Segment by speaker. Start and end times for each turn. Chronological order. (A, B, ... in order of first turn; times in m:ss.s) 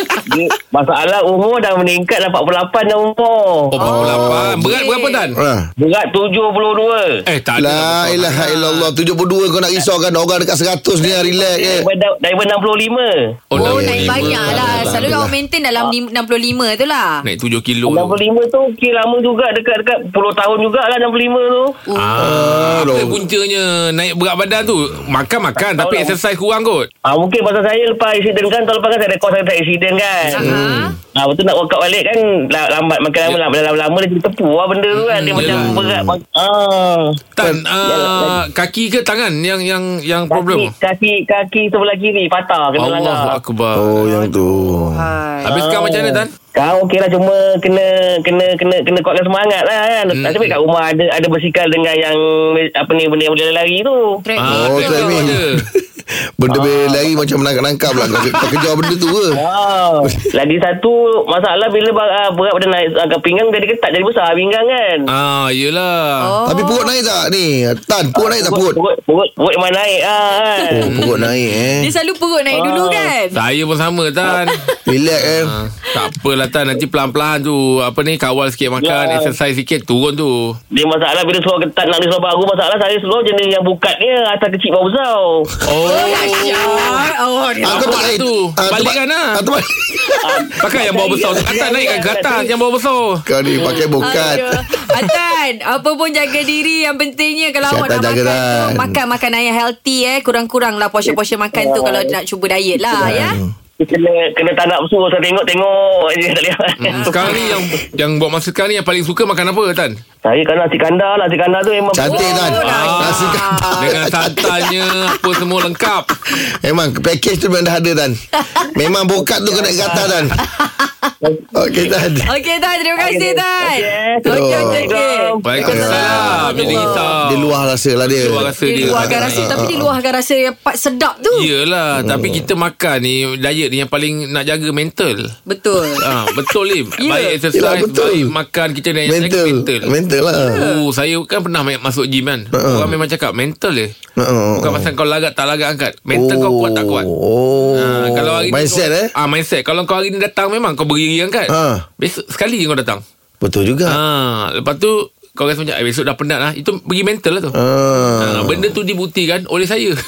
0:00.3-0:03.7 A
0:03.7-0:05.4 B
0:03.8-0:05.3 C
0:03.8-0:04.8 D
0:05.4-0:05.7 D
0:05.8-0:07.1 A
0:07.3-0:08.9 B
0:07.6-0:11.9 D
0:11.0-0:13.1 A
0:13.5-0:15.1 B
0:13.6-0:15.4 D
0:13.6-0:17.2 C
0:17.2-0:18.2 B
0:17.9-0:21.8 A
0:21.9-0:22.2 C
0:21.9-0:26.9 B
0:22.2-0:23.2 D
0:25.6-0:26.2 A
0:27.1-0:30.4 A
0:30.3-0:30.9 C
0:30.4-0:31.0 D
0:31.2-0:37.2 A
0:34.9-0:35.8 B
0:35.4-0:36.2 D
0:37.4-0:40.7 B
0:37.8-0:38.4 A
0:40.3-0:43.4 A
0:42.8-0:44.1 B
0:43.8-0:45.1 D
0:44.0-0:45.6 C
0:45.4-0:46.3 B
0:45.5-0:54.0 A
0:50.1-0:50.6 B
0:54.2-0:55.4 C
0:54.4-0:55.7 B
0:54.4-0:59.4 D
0:56.5-0:57.2 A
0:58.0-0:58.6 B
0:59.4-1:05.1 A
1:05.1-1:06.3 B
1:06.2-1:07.0 C
1:06.4-1:08.8 D
1:08.2-1:10.8 A
1:10.5-1:10.9 C
1:10.7-1:11.9 D
1:10.9-1:11.7 B
1:11.8-1:13.4 C
1:12.5-1:13.1 A
1:13.3-1:14.6 B
1:14.5-1:14.8 C
1:14.9-1:15.6 D
1:15.2-1:20.6 B
1:18.8-1:19.4 A
1:20.7-1:25.5 A
1:25.6-1:27.1 B
1:25.8-1:28.2 C
1:27.6-1:30.2 D
1:27.6-1:29.4 B
1:30.2-1:32.5 A
1:30.6-1:34.4 B
1:33.3-1:34.5 D
1:33.6-1:43.4 C
1:37.6-1:39.0 D
1:41.0-1:42.1 A
1:43.0-1:43.5 D
1:43.8-1:47.6 A
1:46.8-1:50.0 B
1:46.9-1:47.6 C
1:50.2-1:52.4 A
1:51.9-1:54.5 D
1:52.0-1:54.6 C
1:52.5-1:56.1 B
1:56.3-2:00.4 D
1:59.2-2:00.3 A
2:00.4-2:01.1 C
2:01.2-2:01.5 A
2:01.5-2:02.3 D
2:02.2-2:07.1 C
2:03.0-2:05.6 A
2:04.2-2:04.9 D
2:05.4-2:09.5 B
2:05.6-2:10.0 D
2:08.6-2:11.5 C
2:11.3-2:15.3 B
2:11.9-2:12.5 D
2:15.5-2:16.0 C
2:16.0-2:19.9 B
2:17.0-2:17.4 C
2:17.5-2:18.3 D
2:19.1-2:20.6 D
2:20.4-2:20.8 C
2:20.5-2:23.9 B
2:22.5-2:23.0 D
2:24.2-2:24.9 D
2:24.6-2:27.1 B
2:26.1-2:29.1 D
2:27.6-2:28.0 C
2:27.8-2:33.0 B
2:31.5-2:31.8 D
2:33.4-2:34.0 D
2:33.9-2:37.6 B
2:37.5-2:38.7 D
2:38.2-2:40.0 B